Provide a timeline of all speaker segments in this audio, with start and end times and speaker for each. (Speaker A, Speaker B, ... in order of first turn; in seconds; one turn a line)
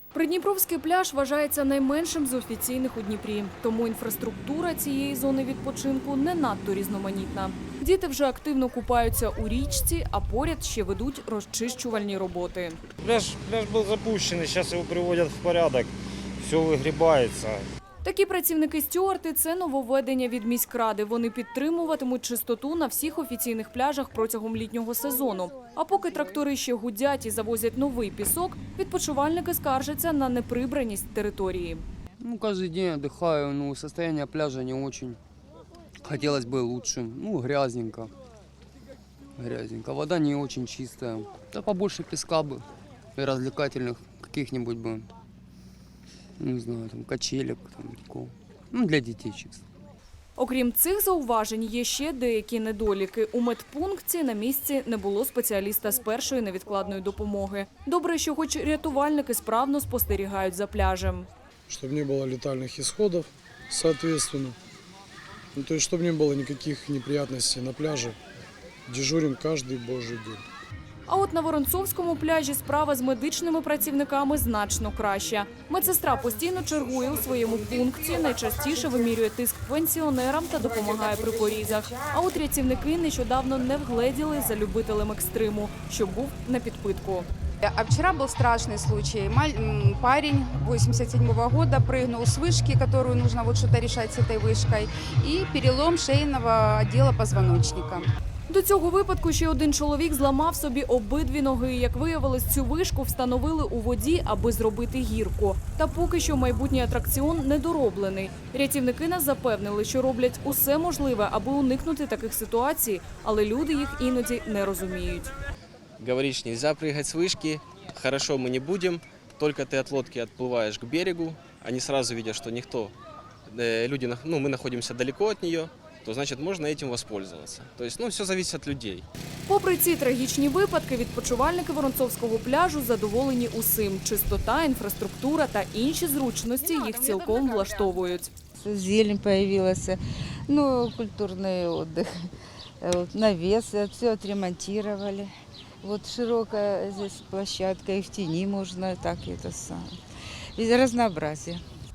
Speaker A: 0.1-12.8
Speaker B: 13.0-17.6
Speaker A: 18.0-31.9
Speaker C: 32.2-35.2
Speaker C: 36.0-38.1
Speaker C: 39.4-42.6
Speaker C: 43.2-45.1
Speaker C: 46.4-49.6
Speaker A: 50.4-61.3
Speaker D: 61.7-64.6
Speaker D: 65.5-68.2
Speaker D: 68.9-70.4
Speaker A: 71.1-87.3
Speaker E: 87.6-98.1
Speaker A: 98.5-115.3
Speaker F: 116.0-122.9
Speaker F: 123.5-129.1
Speaker A: 129.5-138.3
Speaker G: 138.6-142.1
Speaker G: 142.8-145.3
Speaker G: 145.8-149.9
Speaker G: 150.6-151.6